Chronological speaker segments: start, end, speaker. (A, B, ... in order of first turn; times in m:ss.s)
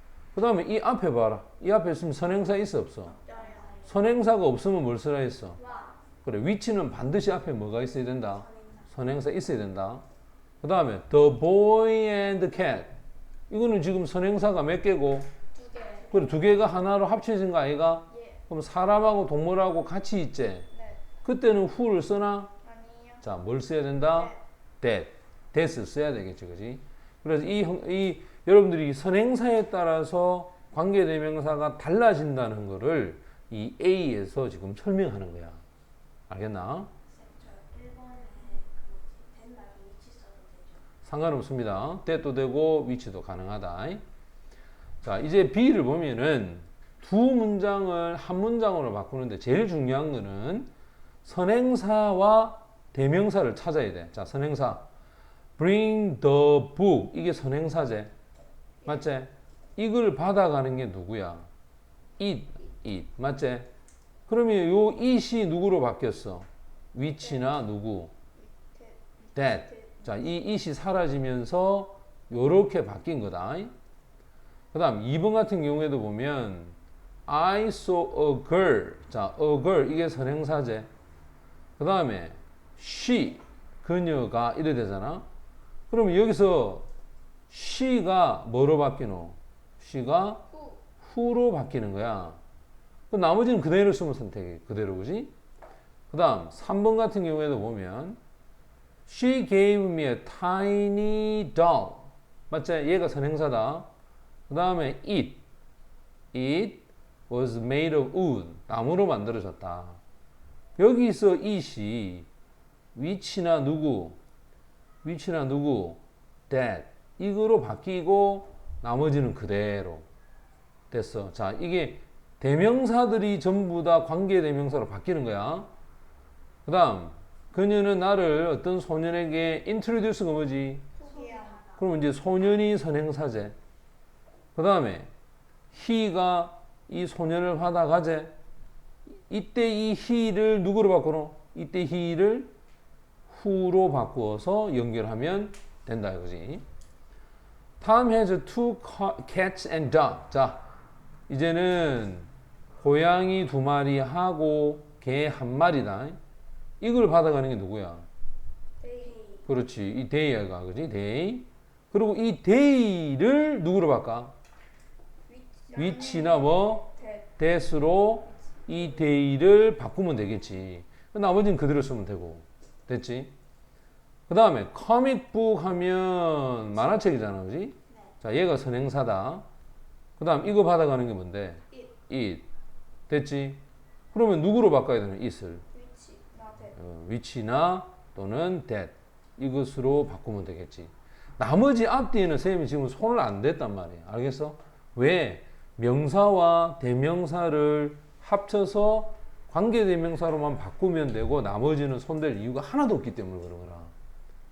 0:00.3-0:03.2 A
0:03.2-0:03.7 B
0:03.3-0:04.0 C
0:03.8-0:05.6 A
0:05.6-0:06.0 C
0:06.2-0:10.0 A
0:08.3-0:08.9 C
0:10.6-0:15.3 A
0:15.6-0:16.1 B
0:15.6-0:16.3 C
0:16.1-0:20.7 A
0:18.1-0:18.4 B
0:20.7-0:21.0 B
0:21.2-0:22.5 A
0:22.6-0:23.2 B
0:23.2-0:35.6 A
0:24.1-0:24.4 B
0:36.3-0:36.9 A
0:37.1-0:40.9 C
0:41.0-0:44.0 A
0:45.0-0:50.7 A
0:51.2-0:54.9 A
0:55.6-0:58.1 A
0:58.8-1:01.5 A
1:02.2-1:03.7 A
1:04.3-1:08.1 A
1:08.4-1:10.0 B
1:09.3-1:13.7 A
1:14.7-1:20.9 A
1:21.8-1:25.2 A
1:25.9-1:26.9 A
1:27.5-1:30.5 A
1:30.5-1:30.8 B
1:31.0-1:32.4 A
1:33.1-1:35.3 A
1:36.1-1:38.2 A
1:39.0-1:43.9 A
1:44.5-1:45.4 A
1:46.3-1:50.0 A
1:50.8-1:52.3 A
1:52.9-1:54.2 A
1:55.0-2:00.1 A
2:00.9-2:05.7 A
2:06.6-2:10.9 A
2:11.0-2:11.6 B
2:11.0-2:11.8 C
2:11.8-2:13.6 A
2:14.5-2:15.1 A
2:15.7-2:18.4 A
2:19.3-2:22.5 A
2:23.3-2:26.6 A
2:27.8-2:30.6 A
2:31.3-2:36.2 A
2:36.8-2:38.1 A
2:38.8-2:39.2 B
2:39.0-2:39.4 C
2:39.4-2:44.3 A
2:45.3-2:47.3 B
2:45.7-2:53.3 A
2:54.3-2:59.4 A
3:00.2-3:02.5 A
3:03.1-3:03.6 A
3:04.1-3:05.6 A
3:05.7-3:06.8 B
3:06.7-3:23.9 A